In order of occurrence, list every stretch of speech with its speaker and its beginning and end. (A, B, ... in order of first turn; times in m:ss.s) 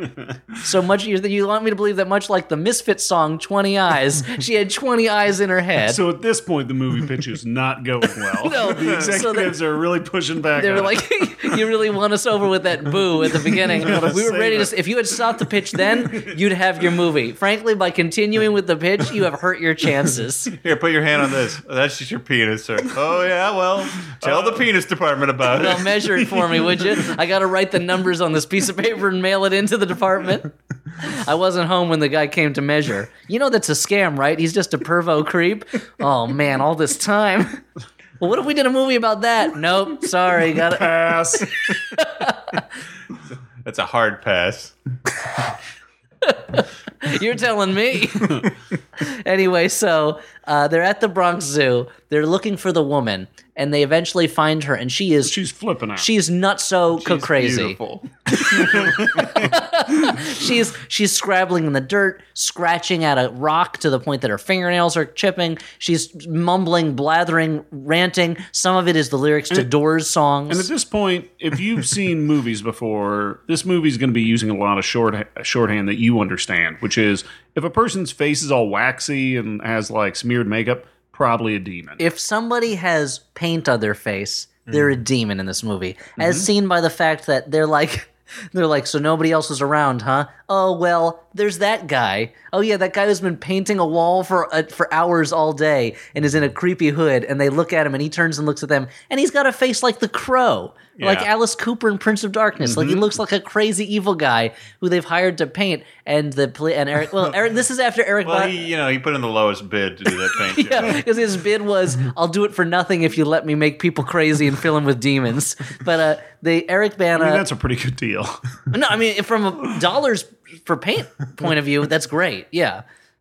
0:00.6-0:06.0 A
0:05.9-0:11.0 B
0:08.4-0:09.6 A
0:10.6-0:20.6 A
0:13.3-0:14.8 B
0:16.1-0:16.3 B
0:20.5-0:26.0 C
0:24.2-0:24.6 B
0:25.5-0:37.6 A
0:38.2-0:42.6 A
0:40.6-0:41.5 B
0:43.6-0:44.8 C
0:46.2-0:48.5 A
0:49.0-0:55.4 A
0:55.2-0:56.1 B
0:56.0-0:57.8 A
0:57.0-0:59.4 C
0:58.6-1:10.7 A
0:58.6-0:59.2 B
1:10.5-1:22.0 B
1:22.0-1:48.6 A
1:26.2-1:26.5 B
1:41.0-1:41.3 C
1:42.6-1:43.0 B
1:48.2-1:51.0 C
1:50.5-1:57.4 A
1:50.6-1:51.0 B
1:57.2-1:58.4 B
1:58.7-2:02.8 A